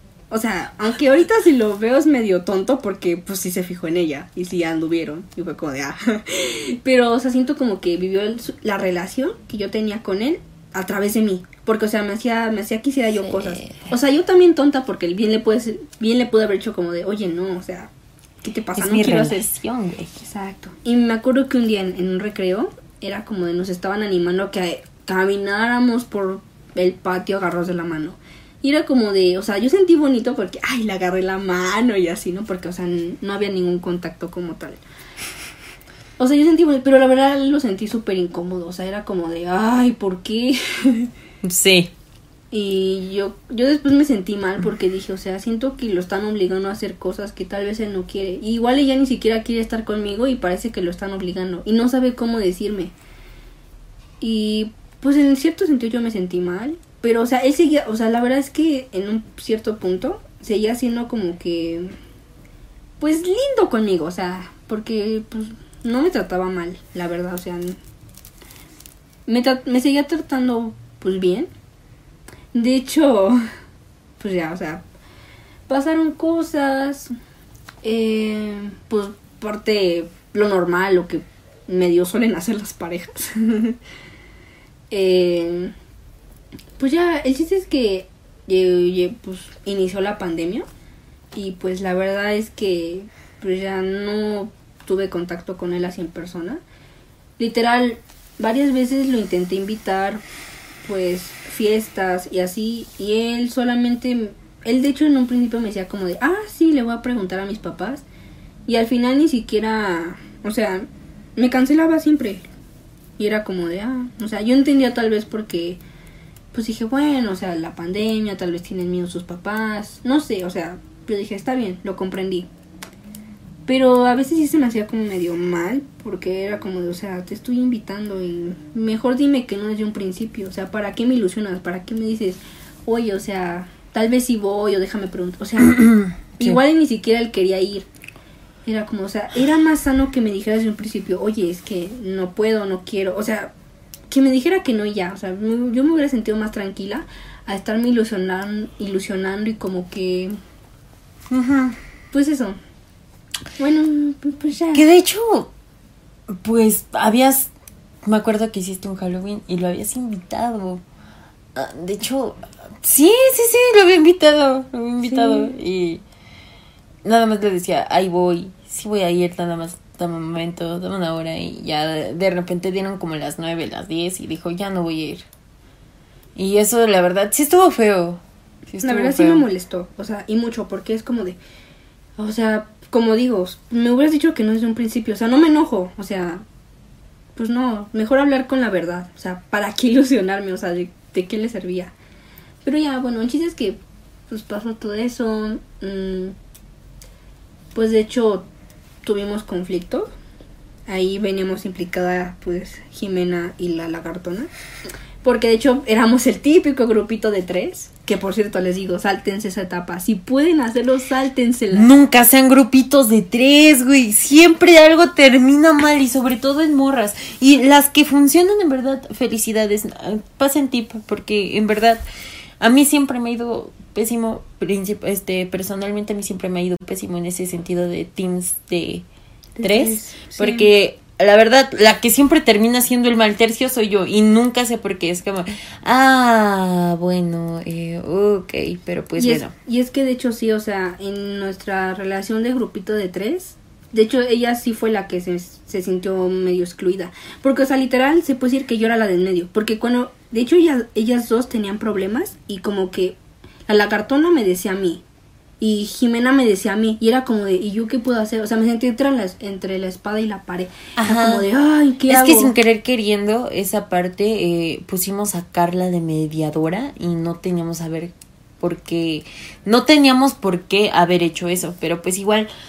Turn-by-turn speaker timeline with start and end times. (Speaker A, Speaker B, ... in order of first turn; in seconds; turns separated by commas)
Speaker A: 0.3-19.5, Speaker B: 13.2-13.9, Speaker B: 18.7-20.3, Speaker A: 20.2-34.8, Speaker A: 36.2-41.1, Speaker B: 41.4-41.9, Speaker A: 42.5-52.9, Speaker A: 54.2-62.0, Speaker A: 63.0-67.8, Speaker A: 69.3-71.5, Speaker A: 72.5-73.4, Speaker A: 74.2-74.8, Speaker A: 75.7-77.1, Speaker A: 77.8-83.8, Speaker A: 84.9-85.7, Speaker A: 86.8-90.7, Speaker A: 91.3-96.6, Speaker A: 97.4-100.2, Speaker A: 100.8-108.0, Speaker A: 108.7-112.5, Speaker A: 113.2-115.8, Speaker A: 116.5-122.5, Speaker A: 123.7-135.8, Speaker B: 135.7-136.6, Speaker A: 136.4-137.9, Speaker A: 138.6-143.5, Speaker A: 144.1-150.3, Speaker B: 151.3-151.8, Speaker A: 152.1-152.6, Speaker A: 153.6-154.8, Speaker B: 154.7-155.5, Speaker B: 156.3-157.5, Speaker B: 158.0-160.8, Speaker B: 161.6-166.0, Speaker A: 165.0-165.5, Speaker B: 167.0-175.3, Speaker B: 176.4-179.5, Speaker A: 178.8-181.4, Speaker A: 182.2-186.4, Speaker A: 187.4-191.9, Speaker A: 192.6-196.4, Speaker A: 197.7-198.5, Speaker A: 199.0-200.1, Speaker A: 200.9-204.5, Speaker A: 205.2-211.9, Speaker B: 211.7-222.0, Speaker B: 222.6-229.1, Speaker A: 229.6-230.7, Speaker B: 229.6-239.5, Speaker A: 239.2-255.0, Speaker A: 255.6-262.5, Speaker B: 261.0-261.4, Speaker B: 262.1-272.5